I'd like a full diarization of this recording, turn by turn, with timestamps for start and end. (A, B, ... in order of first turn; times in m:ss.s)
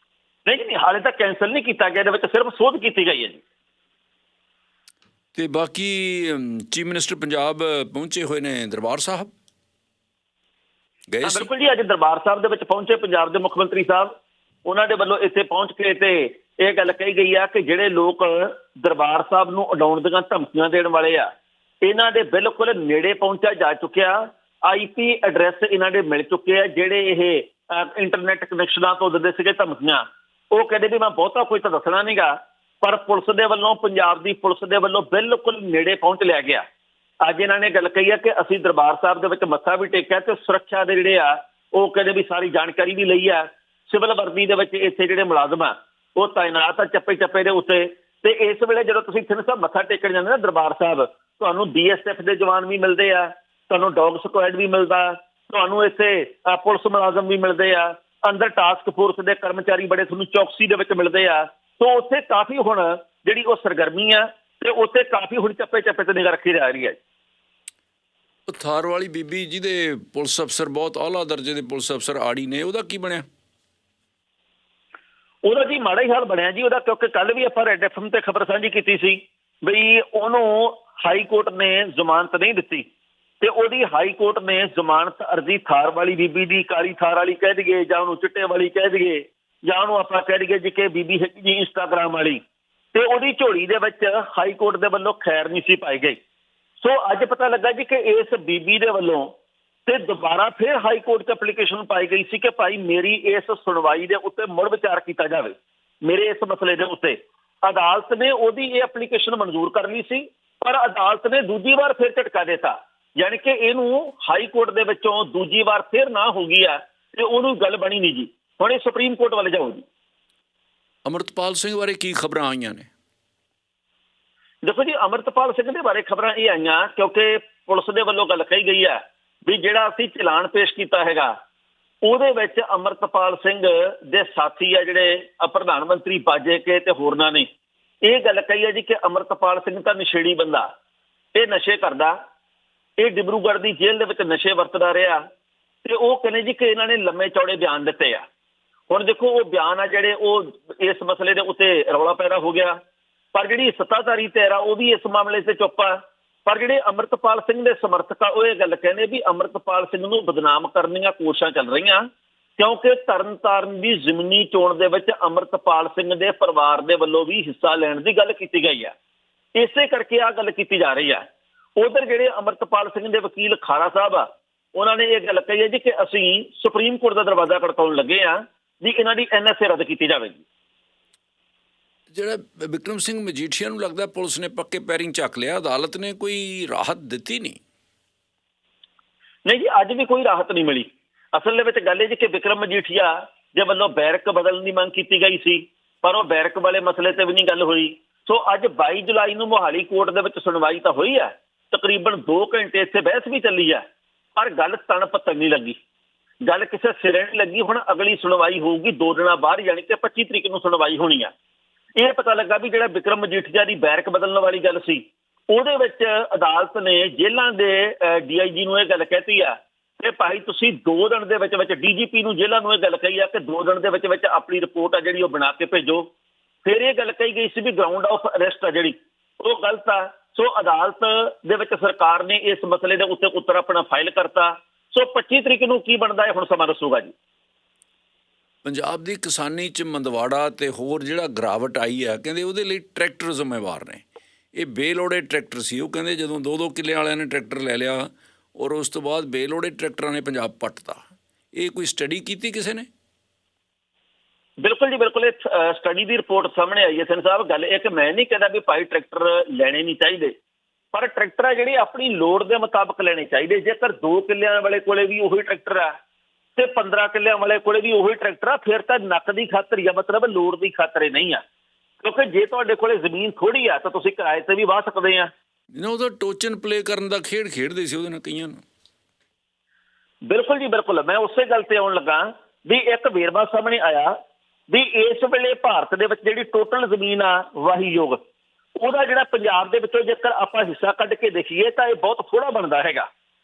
0:00.5-0:03.4 A
0:05.4-0:09.3 B
0:11.1-0:11.5 B
0:11.2-0:14.1 A
0:14.7-0:21.3 A
0:21.8-0:36.6 A
0:37.2-1:07.0 A
1:08.5-1:13.2 B
1:15.4-1:22.8 A
1:23.4-1:32.4 A
1:32.9-1:36.2 A
1:36.8-1:39.3 A
1:39.9-1:59.9 A
2:01.0-2:02.9 B
2:04.6-2:11.3 A
2:12.0-2:17.5 A
2:18.0-2:20.7 A
2:21.4-2:22.2 A
2:23.0-2:25.2 A
2:25.8-2:28.2 A
2:28.9-2:32.8 A
2:33.3-2:42.0 A
2:42.6-2:48.9 A
2:49.6-2:51.2 A
2:51.8-3:00.4 A
3:02.1-3:07.6 B
3:09.5-3:23.8 A
3:24.4-3:25.8 A
3:26.4-3:31.3 A
3:32.0-3:46.1 A
3:46.6-3:57.1 A
3:58.6-4:04.0 B
4:04.6-4:11.0 B
4:11.6-4:12.9 B
4:14.6-4:20.3 A
4:20.9-4:25.9 A
4:26.6-4:31.4 A
4:32.0-4:35.3 A
4:35.8-4:38.6 B
4:40.3-4:44.1 A
4:44.7-4:48.2 A
4:48.8-4:53.1 A